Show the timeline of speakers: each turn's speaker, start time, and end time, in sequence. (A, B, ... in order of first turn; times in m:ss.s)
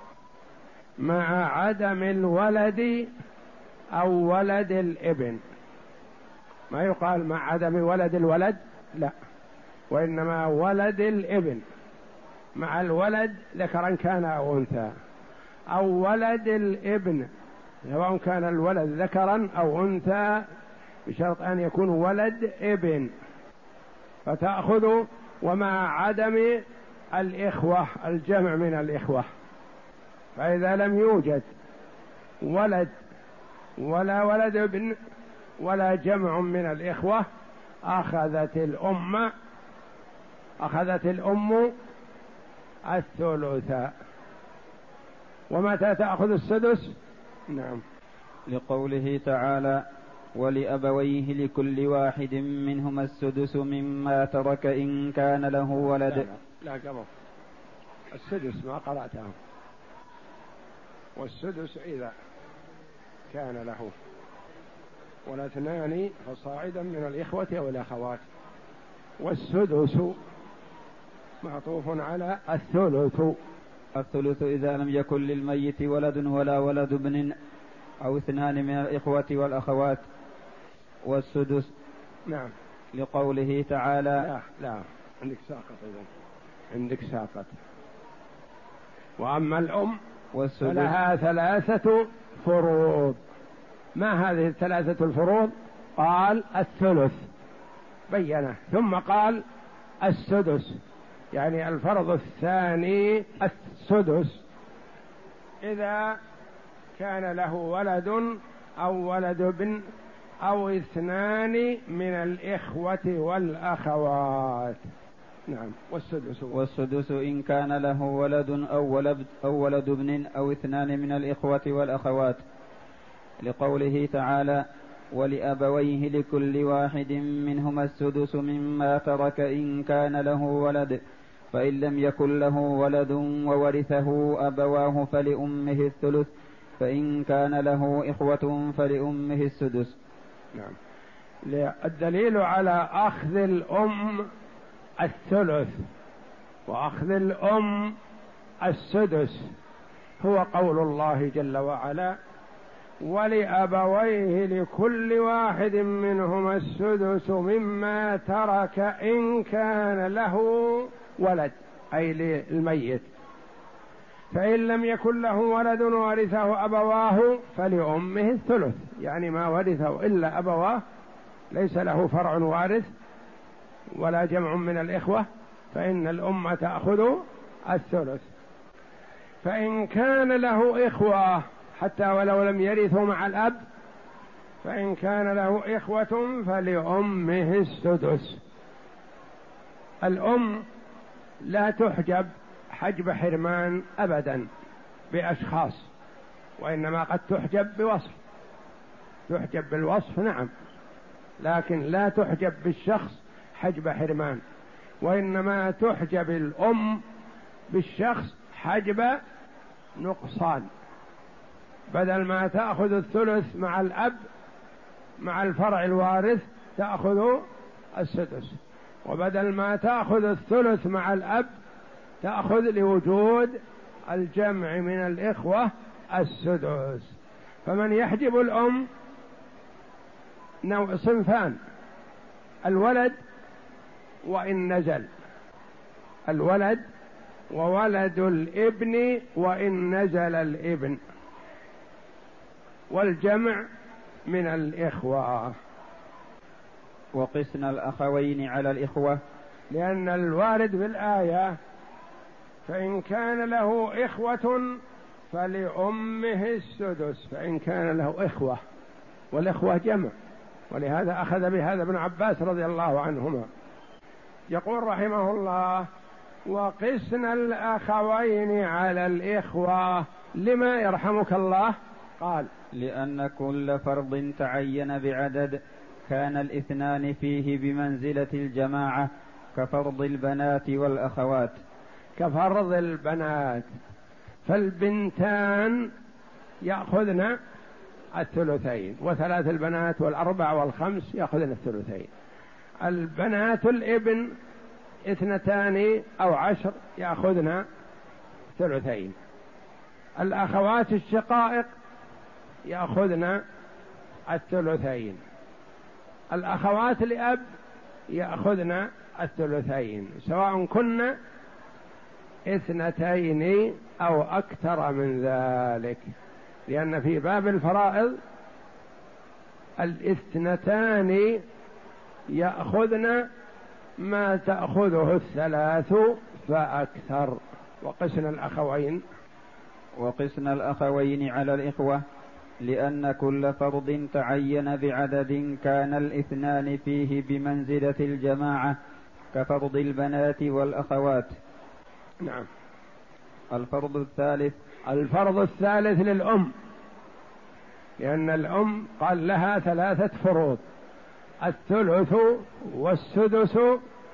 0:01.0-0:03.1 A
0:04.0-0:05.4 A
0:06.7-0:09.1 A
0:09.9-0:11.6 A
0:12.6-0:14.9 A
0:15.7-0:17.3 A
0:17.8-0:20.5 A
0:21.1-0:23.1 A
0:24.3-0:26.6 A
0:27.1-0:29.3 A
0:30.4-0:31.5 A
0:32.4-0:32.9 A
0:33.8-0:35.0 A
0:35.6-0:37.3 A
0:37.9-0:39.3 A
0:40.6-0:41.7 A
0:42.9-0:43.9 A
0:45.5-0:47.0 A
0:47.5-0:47.8 A
0:48.5-0:56.3 B
0:56.1-0:57.1 A
0:58.1-0:59.4 A
1:01.2-1:02.1 A
1:03.3-1:03.9 A
1:05.3-1:08.3 A
1:09.2-1:10.2 A
1:11.4-1:13.4 A
1:14.0-1:17.3 B
1:18.0-1:20.0 B
1:21.0-1:21.7 B
1:22.9-1:24.3 B
1:24.2-1:26.1 A
1:26.7-1:27.6 A
1:29.2-1:30.0 A
1:30.3-1:31.0 B
1:30.6-1:33.2 A
1:34.0-1:37.3 A
1:38.1-1:39.4 A
1:40.0-1:40.8 A
1:41.3-1:44.4 A
1:45.6-1:46.2 A
1:47.0-1:49.8 A
1:50.4-1:54.8 A
1:55.5-1:56.6 A
1:56.5-2:02.4 B
2:03.4-2:11.0 B
2:11.5-2:20.0 B
2:21.5-2:24.3 A
2:25.0-2:25.8 A
2:26.7-2:28.0 A
2:28.6-2:29.5 A
2:30.2-2:32.2 A
2:33.0-2:43.1 A
2:44.3-2:50.8 A
2:51.5-2:52.9 A
2:54.0-2:58.2 A
2:59.4-3:03.6 A
3:04.6-3:08.4 A
3:10.0-3:10.6 A
3:11.4-3:14.5 A
3:15.1-3:15.9 A
3:16.6-3:18.2 A
3:19.3-3:20.5 A
3:21.4-3:24.4 A
3:25.0-3:27.0 A
3:27.7-3:29.2 A
3:30.0-3:30.7 A
3:31.9-3:34.2 A
3:35.2-3:37.4 A
3:38.0-3:41.5 A
3:42.2-3:43.6 A
3:44.1-3:48.9 A
3:50.6-3:51.6 A
3:52.6-3:53.2 A
3:54.2-3:55.1 A
3:56.3-3:56.8 A
3:57.5-4:01.0 A
4:02.9-4:03.7 A
4:04.3-4:05.5 A
4:07.1-4:09.2 B
4:09.7-4:11.6 A
4:12.7-4:14.8 A
4:15.3-4:18.6 A
4:19.3-4:20.1 A
4:20.7-4:23.5 A
4:24.5-4:25.9 A
4:26.5-4:32.5 A
4:32.7-4:41.6 B
4:42.2-4:43.7 A
4:44.5-4:45.9 A
4:46.6-4:47.4 A
4:48.2-4:52.1 A
4:52.8-4:54.3 A
4:55.1-4:57.6 A
4:58.6-4:59.2 A
5:00.2-5:01.7 A
5:02.6-5:03.4 A
5:04.3-5:05.2 A
5:06.3-5:07.4 A
5:08.1-5:11.1 A
5:12.5-5:16.0 A
5:16.7-5:18.2 A
5:19.8-5:21.4 A
5:22.3-5:23.3 A
5:24.0-5:29.0 A
5:30.0-5:32.0 B
5:32.6-5:38.8 B
5:39.3-5:41.3 B
5:42.2-5:42.5 A
5:43.5-5:44.6 B
5:44.9-5:46.5 A
5:48.0-5:50.6 A
5:51.4-5:53.8 A